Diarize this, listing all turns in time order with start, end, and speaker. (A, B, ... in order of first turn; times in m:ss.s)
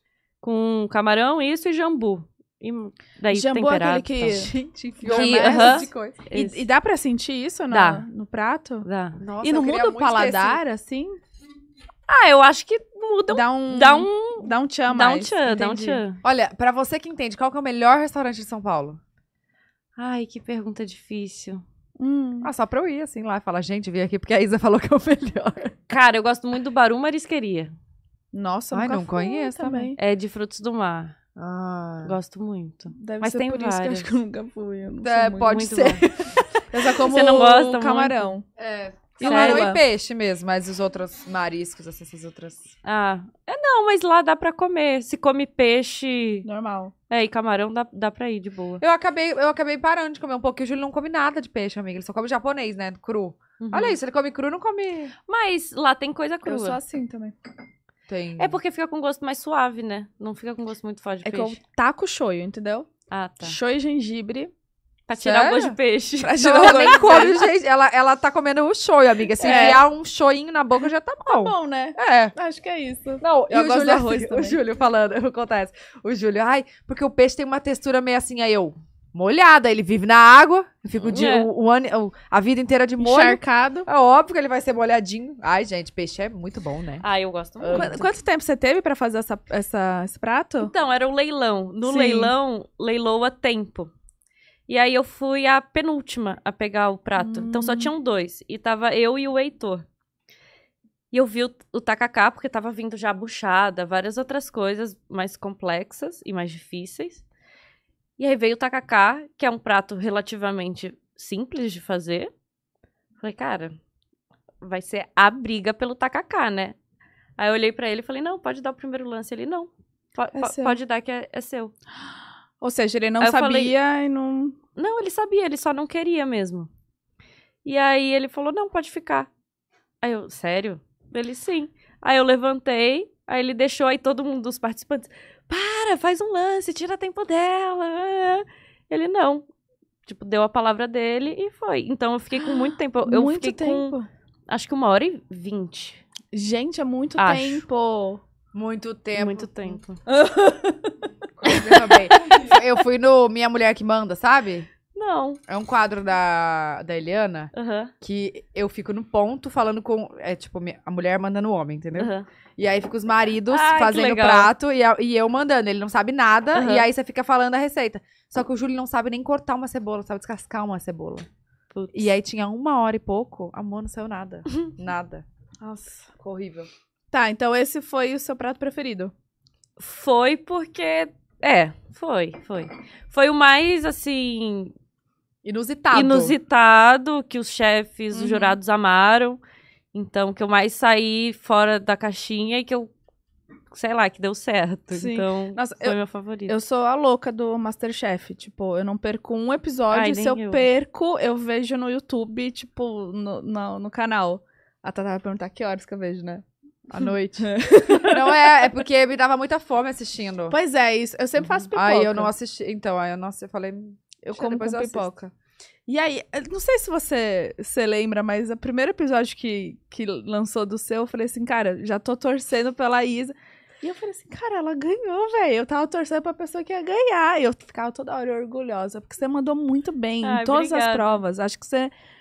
0:00.4-0:04.5 A
0:03.3-0:04.5 B
0:04.2-0:06.2 C
0:05.0-0:08.8 B
0:05.0-0:06.6 A
0:07.7-0:08.0 A
0:08.8-0:09.2 A
0:09.2-0:10.6 C
0:09.4-0:11.2 B
0:12.1-0:16.2 A
0:13.3-0:16.0 B
0:16.2-0:19.0 C
0:20.0-0:21.6 A
0:22.0-0:22.5 B
0:22.4-0:25.7 C
0:25.9-0:27.7 A
0:28.3-0:30.0 B
0:28.7-0:29.9 C
0:30.0-0:31.2 A
0:31.4-0:32.1 C
0:32.0-0:34.1 A
0:33.0-0:35.7 B
0:35.0-0:36.5 C
0:35.5-0:36.0 A
0:36.7-0:38.4 B
0:37.0-0:38.4 A
0:38.6-0:42.7 C
0:39.2-0:39.8 B
0:39.2-0:39.7 A
0:42.8-0:46.4 A
0:46.4-0:46.9 B
0:47.1-0:48.8 A
0:48.8-0:55.1 C
0:53.6-0:54.0 A
0:55.3-0:56.8 A
0:56.4-0:57.4 B
0:58.1-0:58.6 C
0:58.4-1:01.6 A
1:01.2-1:02.9 B
1:03.1-1:03.6 A
1:03.4-1:04.5 B
1:05.1-1:07.4 A
1:05.2-1:05.8 C
1:06.2-1:07.4 B
1:06.5-1:12.3 C
1:09.4-1:09.8 B
1:11.3-1:14.6 B
1:13.2-1:27.0 C
1:21.0-1:21.5 A
1:23.0-1:23.9 B
1:27.0-1:28.0 A
1:27.6-1:28.1 C
1:27.7-1:30.7 B
1:30.6-1:33.9 A
1:31.8-1:32.3 B
1:34.7-1:39.8 A
1:37.2-1:37.9 B
1:41.1-1:47.2 A
1:48.2-1:52.3 A
1:53.2-1:53.8 A
1:54.6-1:56.8 A
1:57.4-2:01.7 A
2:00.3-2:00.8 B
2:02.6-2:04.6 B
2:03.2-2:03.7 A
2:04.8-2:06.7 A
2:07.6-2:09.3 A
2:10.0-2:19.4 A
2:20.0-2:24.0 A
2:22.4-2:24.1 B
2:24.5-2:26.0 A
2:26.3-2:28.2 B
2:27.2-2:27.6 A
2:28.5-2:29.8 C
2:29.2-2:30.0 A
2:30.1-2:30.9 B
2:31.4-2:34.7 C
2:31.4-2:32.0 B
2:34.9-2:35.4 A
2:35.5-2:51.3 C
2:37.5-2:37.9 A
2:41.9-2:42.3 A
2:43.5-2:44.5 A
2:46.5-2:46.9 A
2:51.7-2:52.1 A
2:51.9-2:55.2 C
2:55.6-2:56.1 B
2:56.2-2:56.7 C
2:57.1-2:59.1 B
2:59.8-3:04.7 A
3:05.4-3:06.3 C
3:05.9-3:09.4 A
3:08.1-3:08.6 B
3:09.9-3:12.9 A
3:13.7-3:16.5 A
3:14.9-3:16.0 B
3:16.5-3:26.4 B
3:19.9-3:20.6 A
3:26.9-3:30.6 C
3:27.4-3:28.6 B
3:30.5-3:32.3 B
3:31.7-3:35.1 C
3:34.3-3:35.3 B
3:35.9-3:51.9 B
3:50.2-3:51.2 A